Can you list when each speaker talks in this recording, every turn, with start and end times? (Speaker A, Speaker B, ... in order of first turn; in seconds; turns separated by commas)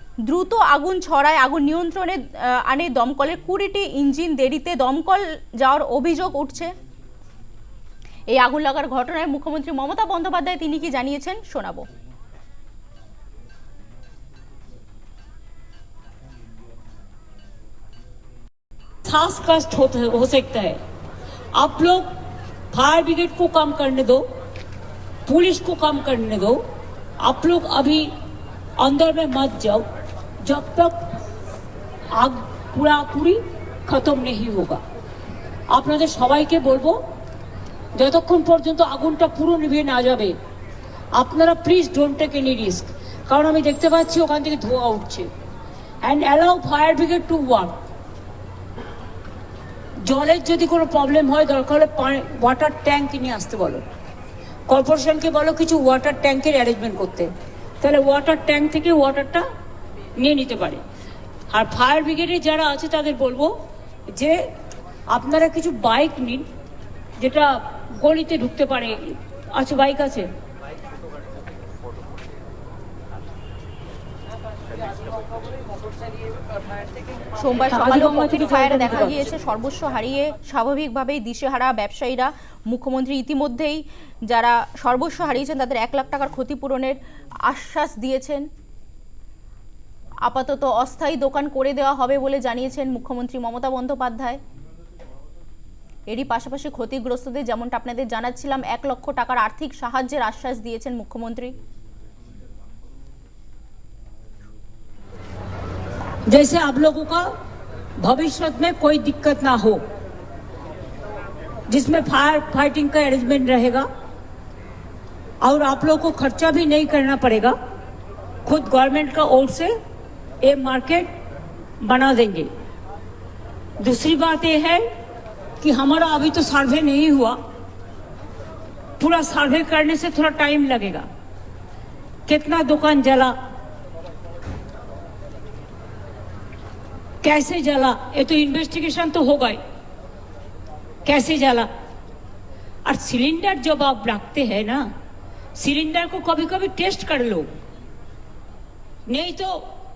Speaker A: 0.2-6.7, Speaker A: 8.3-11.9, Speaker B: 19.1-20.8, Speaker B: 21.6-22.1, Speaker B: 22.7-24.2, Speaker B: 25.3-26.6, Speaker B: 27.2-28.1, Speaker B: 28.8-29.9, Speaker B: 30.4-31.0, Speaker B: 32.1-34.8, Speaker B: 35.7-37.0, Speaker B: 38.0-40.3, Speaker B: 41.2-45.3, Speaker B: 46.0-47.8, Speaker B: 50.0-53.9, Speaker B: 54.7-57.3, Speaker B: 57.8-59.5, Speaker B: 60.2-60.8, Speaker B: 61.5-63.5, Speaker B: 64.1-64.4, Speaker B: 65.1-66.5, Speaker B: 67.2-70.3, Speaker A: 77.4-88.5, Speaker B: 77.7-79.3, Speaker A: 90.2-94.4, Speaker A: 96.1-101.5, Speaker B: 106.3-107.3, Speaker B: 108.0-109.8, Speaker B: 111.7-113.9, Speaker B: 115.4-117.5, Speaker B: 118.5-119.7, Speaker B: 120.4-121.1, Speaker B: 121.8-122.5, Speaker B: 123.8-124.8, Speaker B: 125.6-127.4, Speaker B: 129.0-131.1, Speaker B: 132.3-133.3, Speaker B: 137.2-139.6, Speaker B: 141.1-141.7, Speaker B: 142.9-144.9, Speaker B: 145.6-147.5, Speaker B: 149.1-149.7